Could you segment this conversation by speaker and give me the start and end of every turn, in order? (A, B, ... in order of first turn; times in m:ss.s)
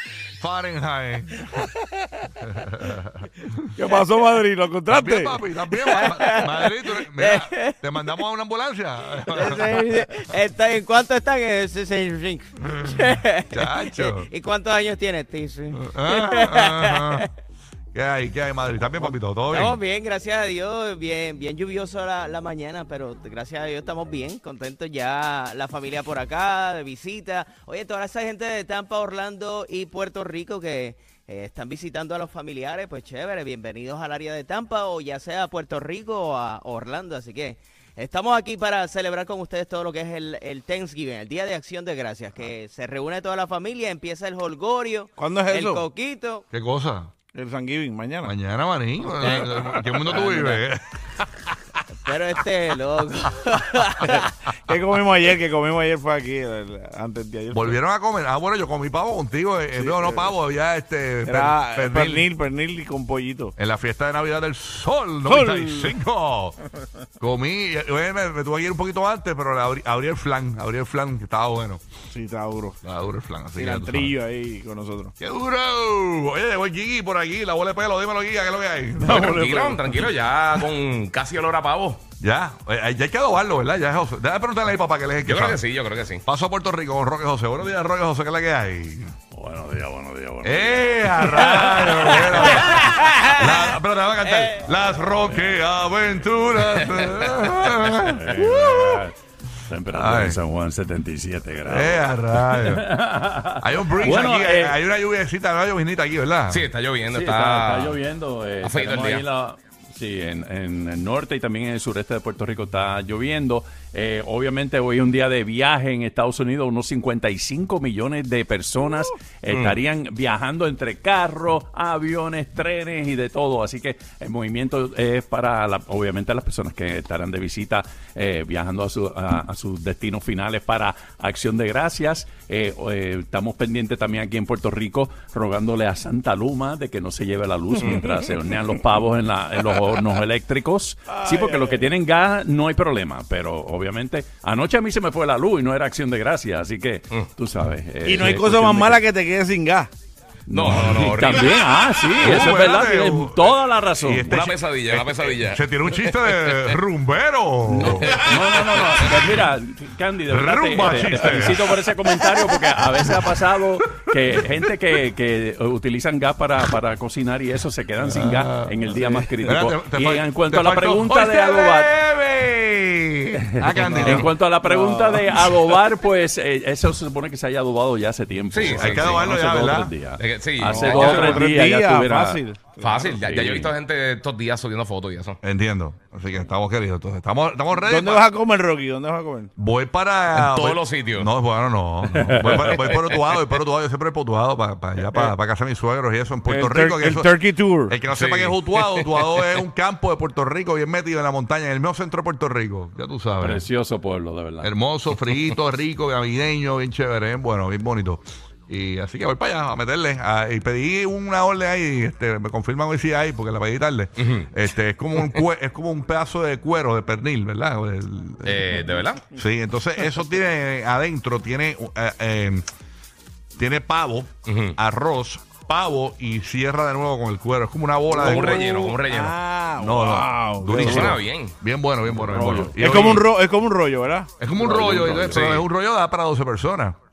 0:00.4-0:01.5 A
0:02.4-0:03.6 A
0:03.8-0:05.4 B
0:04.9-0:09.9 A
0:05.7-0:07.7 C
0:09.3-0:17.3 C
0:12.9-0:14.3 A
0:15.8-0:17.3 A
0:17.9-0:19.8 A
0:19.0-0:46.4 C
0:45.2-0:45.9 B
0:46.5-0:47.1 A
0:47.3-0:48.3 B
0:48.2-0:51.8 A
0:49.2-0:49.5 C
0:49.3-0:50.1 B
0:50.1-0:50.6 C
0:52.0-0:54.3 C
0:54.0-0:57.8 B
0:57.5-1:02.3 A
0:59.8-1:00.3 B
1:01.2-1:03.5 B
1:03.6-1:06.6 A
1:05.3-1:06.0 B
1:07.2-1:11.8 A
1:12.1-1:12.8 B
1:12.8-1:14.1 A
1:13.6-1:15.1 B
1:15.2-1:19.4 A
1:19.0-1:22.0 D
1:19.4-1:19.8 B
1:22.2-1:25.6 A
1:25.2-1:26.2 D
1:26.2-1:29.1 A
1:29.3-1:32.9 E
1:30.4-1:39.0 A
1:36.6-1:38.0 D
1:38.1-1:39.2 E
1:39.7-1:44.8 E
1:39.9-1:40.4 A
1:41.6-1:42.9 A
1:43.6-1:46.7 A
1:46.5-1:48.0 D
1:47.1-2:29.0 E
1:48.6-1:49.3 D
1:59.5-1:59.8 D
2:21.1-2:21.9 B
2:28.0-2:29.9 B
2:30.5-2:34.4 E
2:30.5-2:31.6 D
2:30.7-2:31.0 A
2:32.2-2:38.2 A
2:34.3-2:36.8 D
2:37.7-2:51.9 E
2:38.0-2:39.2 D
2:40.3-2:41.7 A
2:48.0-2:48.8 A
2:49.4-2:54.3 A
2:53.5-3:02.4 E
2:53.8-2:55.3 B
2:58.5-2:59.4 D
2:58.7-2:59.9 A
3:00.2-3:01.5 D
3:00.6-3:03.2 B
3:02.8-3:05.4 D
3:03.1-3:03.7 E
3:05.4-3:08.2 A
3:07.7-3:09.5 B
3:09.6-3:17.4 A
3:10.4-3:11.3 D
3:12.2-3:12.8 E
3:16.5-3:18.0 B
3:17.9-3:23.6 A
3:18.1-3:19.6 D
3:23.4-3:24.7 E
3:24.6-3:38.8 A
3:34.2-3:34.5 D
3:38.5-3:39.2 D
3:39.3-3:42.7 A
3:43.6-3:48.8 A
3:44.5-3:44.8 D
3:48.1-3:51.1 B
3:48.1-3:49.4 D
3:49.8-3:53.3 A
3:50.7-3:51.6 D
3:52.1-3:52.9 E
3:52.8-3:55.1 B
3:54.4-3:57.0 A
3:54.5-3:55.5 E
3:55.3-3:55.7 D